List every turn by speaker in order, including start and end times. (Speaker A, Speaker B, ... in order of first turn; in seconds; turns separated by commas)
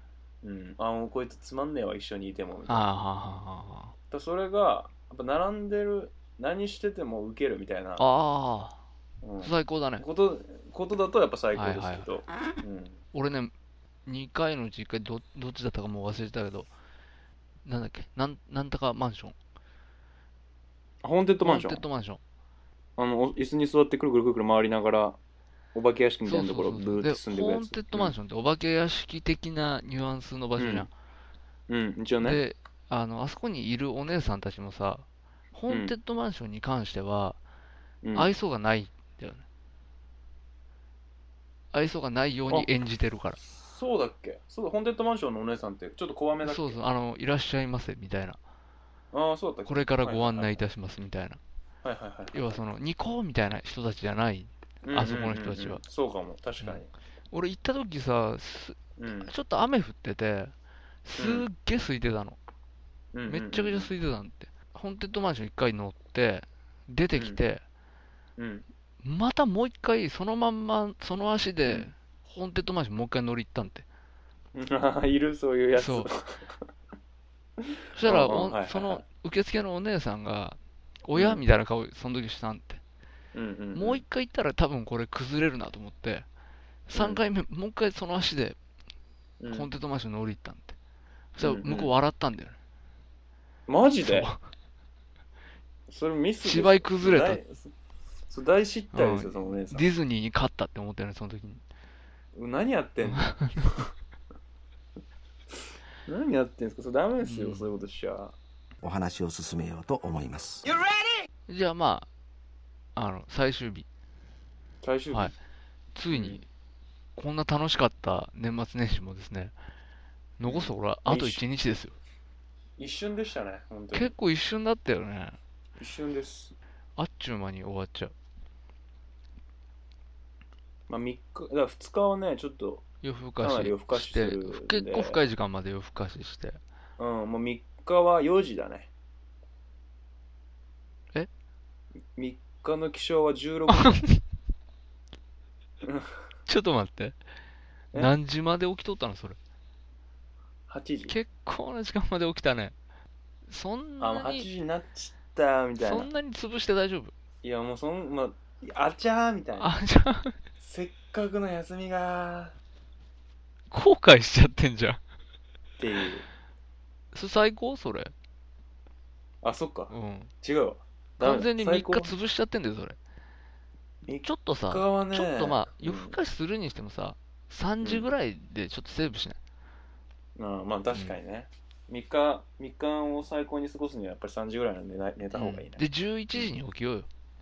Speaker A: 0.4-2.9, Speaker B: 2.7-3.9, Speaker A: 4.1-8.1, Speaker B: 8.0-8.8, Speaker A: 9.2-13.0, Speaker B: 9.4-10.1, Speaker B: 11.6-12.1, Speaker B: 13.1-13.5, Speaker B: 14.1-16.7, Speaker B: 17.6-19.4, Speaker A: 21.0-21.8, Speaker B: 21.4-22.2, Speaker A: 23.0-25.2, Speaker A: 25.7-28.1, Speaker B: 26.2-30.9, Speaker A: 30.6-30.9, Speaker A: 31.7-32.4, Speaker B: 32.2-37.4, Speaker A: 35.7-35.9, Speaker A: 38.0-38.3, Speaker B: 38.1-39.5, Speaker B: 41.7-43.4, Speaker A: 43.4-46.8, Speaker B: 46.4-48.4, Speaker A: 49.1-50.6, Speaker B: 49.7-51.4, Speaker A: 51.8-52.6, Speaker B: 52.3-55.8, Speaker A: 54.8-56.9, Speaker B: 56.6-60.5, Speaker A: 59.0-59.3, Speaker B: 61.0-62.4, Speaker A: 61.2-61.5, Speaker A: 63.1-63.9, Speaker B: 63.3-67.6, Speaker A: 67.1-67.4, Speaker A: 68.4-68.7, Speaker B: 69.0-73.9, Speaker A: 74.5-76.5, Speaker B: 75.8-76.1, Speaker A: 77.6-79.0, Speaker B: 78.0-82.8, Speaker A: 81.1-81.4, Speaker A: 83.3-84.0, Speaker B: 83.8-86.3, Speaker B: 86.9-88.6, Speaker A: 86.9-87.2, Speaker A: 89.4-89.7, Speaker B: 89.5-90.8, Speaker B: 91.4-92.6, Speaker A: 91.4-91.9, Speaker A: 93.7-94.3, Speaker B: 94.0-94.4, Speaker A: 95.9-97.7, Speaker B: 96.4-97.4, Speaker A: 98.3-99.9, Speaker B: 98.9-101.6, Speaker A: 102.3-103.9, Speaker B: 103.2-103.5, Speaker A: 106.1-108.4, Speaker B: 107.2-107.7, Speaker C: 108.8-110.8, Speaker B: 111.5-112.1, Speaker B: 113.0-113.9, Speaker A: 114.8-115.3, Speaker B: 116.0-116.5, Speaker A: 116.1-116.4, Speaker B: 117.2-119.5, Speaker B: 120.4-122.0, Speaker A: 120.5-121.4, Speaker A: 122.8-124.1, Speaker B: 123.9-125.4, Speaker A: 125.8-126.5, Speaker B: 127.0-128.1, Speaker A: 130.9-132.9, Speaker B: 133.0-136.6, Speaker A: 133.4-135.2, Speaker A: 137.0-138.9, Speaker A: 142.2-144.0, Speaker B: 143.7-144.2, Speaker A: 145.8-146.2, Speaker B: 146.5-147.2, Speaker B: 147.9-149.4, Speaker A: 150.7-151.2, Speaker B: 151.1-152.7, Speaker B: 153.5-154.5, Speaker A: 154.0-156.1, Speaker B: 155.8-157.1, Speaker A: 157.4-159.8, Speaker B: 159.6-160.4, Speaker A: 160.6-162.6, Speaker B: 163.7-165.0, Speaker A: 165.8-166.3, Speaker B: 167.1-168.1, Speaker A: 169.4-172.2, Speaker B: 169.9-170.3, Speaker B: 171.2-173.0, Speaker A: 174.1-176.2, Speaker B: 174.2-179.4, Speaker A: 177.8-178.1, Speaker A: 180.4-185.8, Speaker B: 180.9-181.2, Speaker B: 185.3-187.1